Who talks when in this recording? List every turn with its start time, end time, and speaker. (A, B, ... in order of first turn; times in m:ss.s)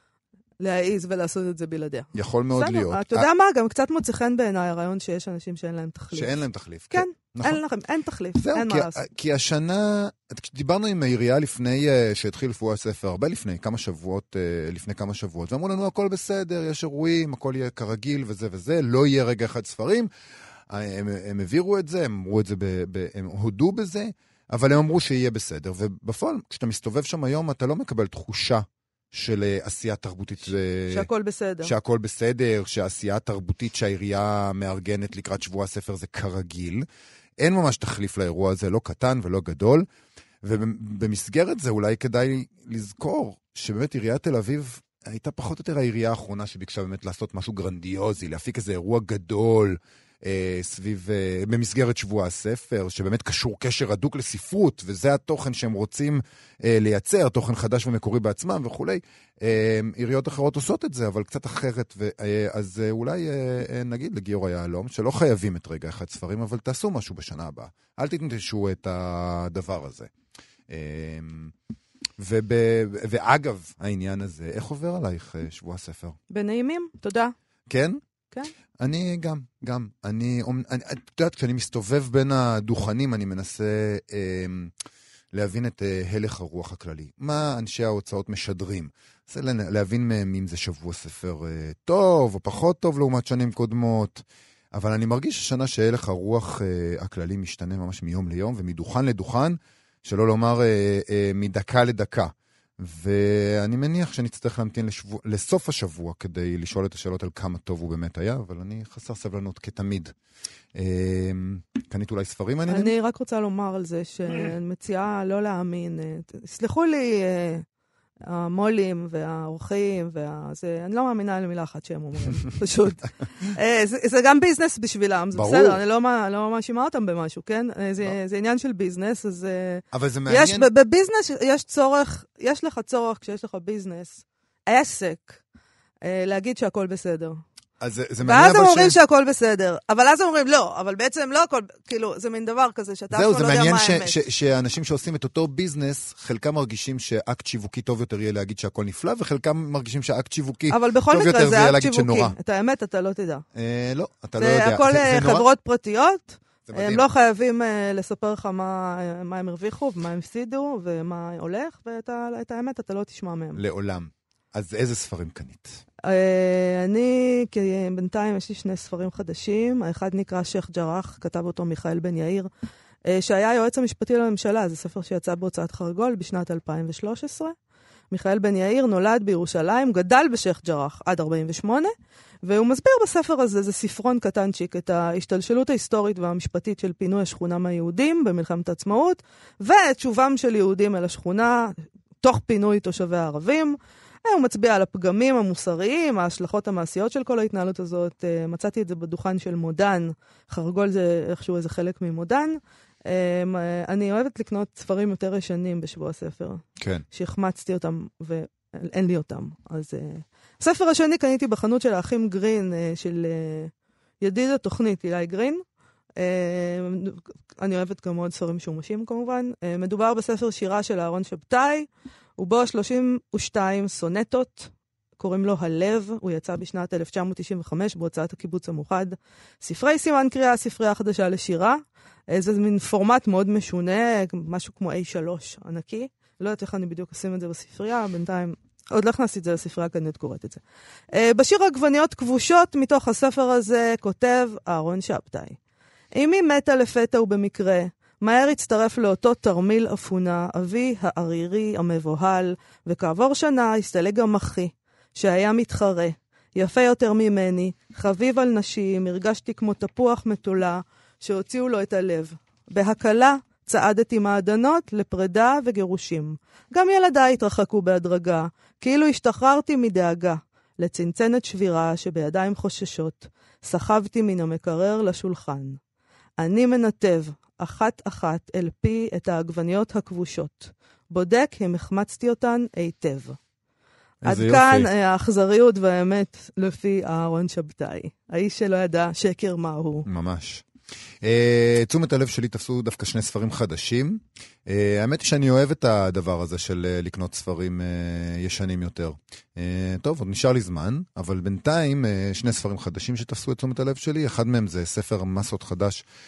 0:00.6-0:09.0 A
0:02.1-0:03.3 B
0:06.1-0:07.6 B
0:08.4-0:20.1 B
0:20.7-0:31.1 B
0:30.9-0:31.7 A
0:31.6-0:36.8 B
0:37.4-0:39.9 B
0:40.4-1:10.1 B
1:10.7-1:11.5 B
1:12.2-1:16.2 B
1:16.3-1:17.3 A
1:17.7-1:18.0 B
1:18.8-1:24.7 B
1:25.3-1:34.2 B
1:34.7-1:50.1 B
1:50.8-1:52.9 B
1:52.7-1:57.6 A
1:58.3-2:15.4 A
2:05.3-2:05.8 B
2:09.9-2:10.7 B
2:16.0-2:17.4 A
2:17.8-2:19.0 B
2:18.2-2:24.2 A
2:23.1-2:32.4 B
2:30.7-2:33.4 A
2:33.5-2:35.5 B
2:34.4-2:43.6 A
2:36.7-2:37.0 B
2:43.6-2:45.8 B
2:46.0-2:52.5 A
2:53.1-2:57.6 A
2:58.1-3:01.9 A
3:02.4-3:35.6 A
3:26.8-3:27.0 B
3:36.2-4:00.6 A
4:01.1-4:05.6 A
4:06.2-4:35.8 A
4:36.4-4:43.4 A
4:44.2-4:44.9 B
4:44.2-4:50.1 A
4:50.1-4:50.6 B
4:51.2-5:06.0 B